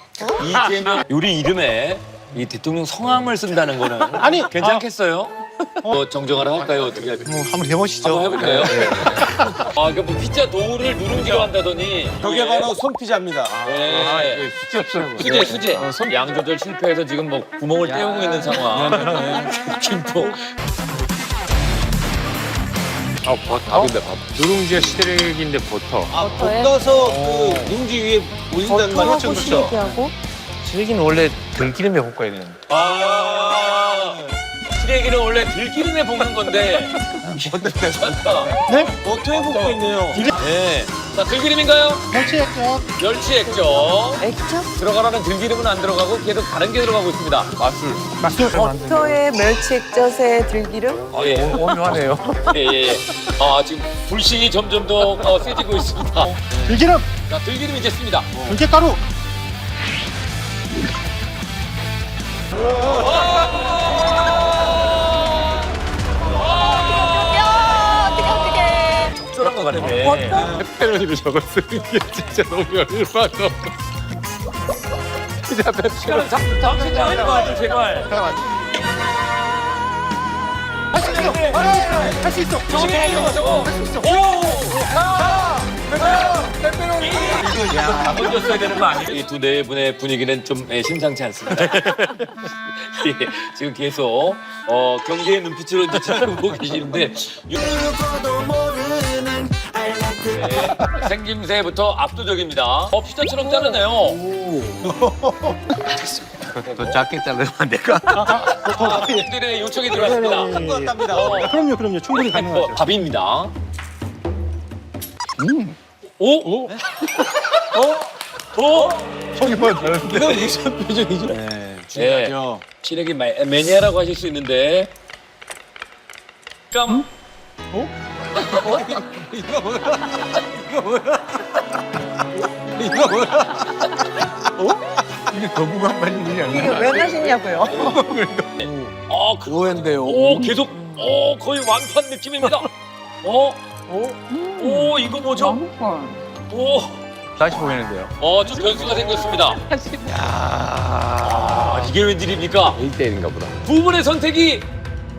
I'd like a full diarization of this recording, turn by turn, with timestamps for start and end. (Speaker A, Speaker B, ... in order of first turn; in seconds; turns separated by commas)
Speaker A: 0.2-0.5, Speaker B: 0.3-7.4, Speaker C: 4.2-4.8, Speaker D: 7.2-9.7, Speaker B: 8.0-12.8, Speaker E: 12.2-13.6, Speaker D: 13.5-16.1, Speaker B: 13.6-14.5, Speaker B: 15.2-20.4, Speaker E: 15.8-16.1, Speaker D: 17.9-19.4, Speaker E: 19.0-19.4, Speaker D: 23.2-26.1, Speaker E: 26.1-29.8, Speaker A: 26.2-26.9, Speaker B: 27.0-27.7, Speaker A: 28.7-30.1, Speaker D: 30.6-32.6, Speaker B: 32.7-42.1, Speaker E: 37.3-38.5, Speaker C: 38.6-38.9, Speaker E: 39.0-40.3, Speaker C: 42.1-42.9, Speaker B: 43.0-47.5, Speaker A: 44.2-44.7, Speaker D: 47.6-49.2, Speaker C: 48.2-48.7, Speaker A: 48.5-51.1, Speaker B: 51.1-56.6, Speaker D: 51.1-52.6, Speaker C: 56.6-57.1, Speaker B: 57.3-58.3, Speaker C: 58.4-59.0, Speaker B: 62.8-65.6, Speaker B: 66.4-70.6, Speaker A: 66.8-69.1, Speaker D: 69.8-73.7, Speaker A: 69.8-70.7, Speaker E: 70.3-70.6, Speaker D: 75.5-77.5, Speaker B: 76.0-78.2, Speaker D: 78.1-78.5, Speaker B: 80.9-81.9, Speaker C: 81.0-84.2, Speaker E: 81.8-82.1, Speaker B: 82.7-99.1, Speaker E: 82.7-83.2, Speaker D: 85.7-88.7, Speaker E: 87.7-88.4, Speaker E: 98.4-100.2, Speaker B: 100.2-104.2, Speaker E: 104.2-105.5, Speaker D: 106.6-108.5, Speaker C: 108.1-109.3, Speaker B: 108.6-111.6, Speaker C: 109.9-112.9, Speaker E: 109.9-111.6, Speaker B: 112.1-113.5, Speaker D: 115.4-115.7, Speaker B: 116.2-120.5, Speaker D: 119.3-120.6, Speaker E: 120.0-122.6, Speaker B: 121.9-124.9, Speaker B: 126.7-127.1, Speaker B: 128.5-128.8, Speaker E: 128.7-129.4, Speaker D: 128.7-130.4, Speaker D: 132.8-133.9, Speaker D: 134.6-138.7, Speaker A: 136.4-138.0, Speaker B: 138.6-142.7, Speaker D: 139.5-141.0, Speaker B: 143.2-143.8, Speaker A: 144.3-146.2, Speaker B: 144.6-145.6, Speaker B: 146.5-147.1, Speaker D: 147.4-148.1, Speaker B: 148.2-149.6, Speaker D: 150.0-151.9, Speaker B: 151.2-152.8, Speaker D: 152.8-153.5, Speaker B: 153.6-154.7